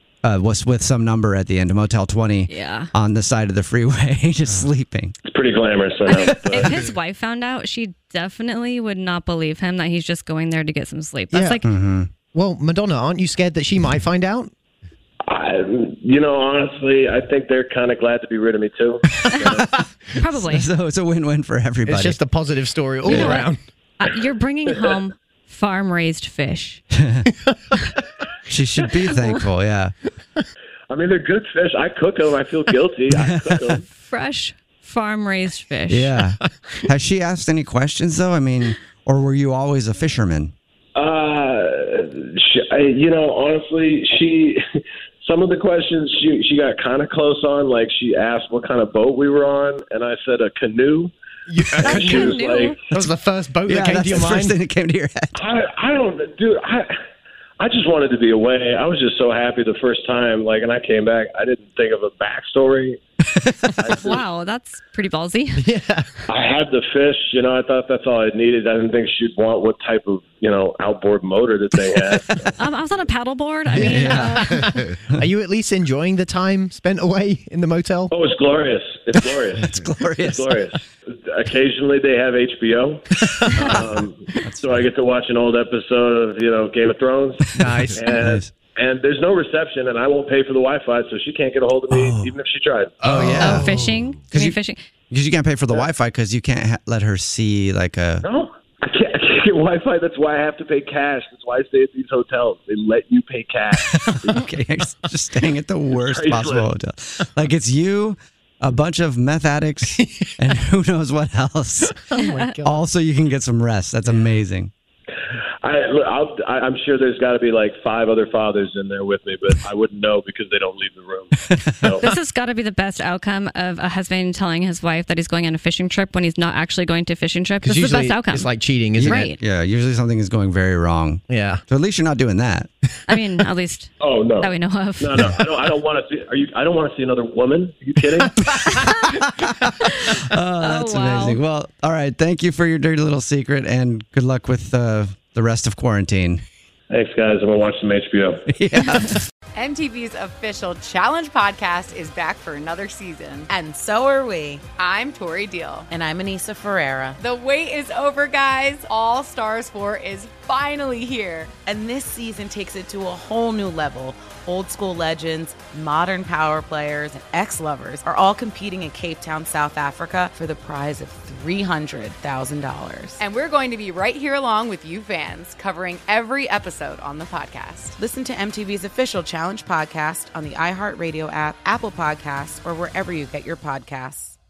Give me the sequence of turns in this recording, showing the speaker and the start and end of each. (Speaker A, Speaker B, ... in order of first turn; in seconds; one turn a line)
Speaker A: 0.2-5.1
Speaker B: 2.5-2.9
Speaker C: 5.2-6.8
Speaker B: 6.0-11.6
Speaker D: 11.3-11.6
Speaker A: 11.6-12.1
Speaker D: 12.3-14.5
Speaker C: 15.3-19.7
Speaker A: 19.6-22.2
Speaker B: 20.2-20.7
Speaker D: 21.8-23.6
Speaker B: 23.0-26.8
Speaker A: 23.1-23.4
Speaker A: 27.0-27.2
Speaker A: 28.5-29.9
Speaker C: 30.9-33.8
Speaker A: 33.1-33.8
Speaker B: 34.1-36.2
Speaker A: 35.9-40.5
Speaker C: 41.0-44.6
Speaker C: 45.2-51.1
Speaker D: 51.5-52.2
Speaker B: 51.8-52.8
Speaker C: 51.8-52.9
Speaker D: 52.9-54.5
Speaker A: 53.6-55.3
Speaker C: 55.3-56.9
Speaker C: 57.6-63.0
Speaker C: 63.8-64.2
Speaker B: 64.0-65.7
Speaker D: 65.6-66.1
Speaker C: 66.3-72.5
Speaker B: 72.6-74.9
Speaker D: 73.8-74.4
Speaker A: 73.8-74.5
Speaker D: 75.1-78.1
Speaker C: 78.1-93.1
Speaker A: 79.6-80.6
Speaker A: 84.4-84.8
Speaker A: 87.5-88.5
Speaker D: 87.6-88.0
Speaker A: 91.9-92.3
Speaker D: 93.0-93.7
Speaker A: 93.0-93.8
Speaker B: 93.4-94.8
Speaker A: 94.3-94.6
Speaker A: 95.1-98.2
Speaker C: 98.2-104.5
Speaker A: 103.8-112.0
Speaker C: 106.0-106.7
Speaker B: 112.1-112.6
Speaker D: 112.1-112.8
Speaker A: 112.6-114.7
Speaker C: 115.6-122.0
Speaker B: 122.0-129.4
Speaker D: 127.6-129.3
Speaker A: 129.0-132.7
Speaker D: 131.3-131.6
Speaker B: 133.1-135.3
Speaker C: 134.0-138.4
Speaker B: 138.7-139.2
Speaker B: 140.0-141.4
Speaker A: 140.2-146.4
Speaker C: 146.9-148.4
Speaker A: 148.5-149.2
Speaker E: 149.5-153.5
Speaker F: 153.5-154.8
Speaker E: 154.8-155.9
Speaker F: 155.9-157.2
Speaker E: 157.2-161.6
Speaker F: 161.6-173.2
Speaker E: 173.2-174.5
Speaker F: 174.4-184.3
Speaker E: 175.2-175.6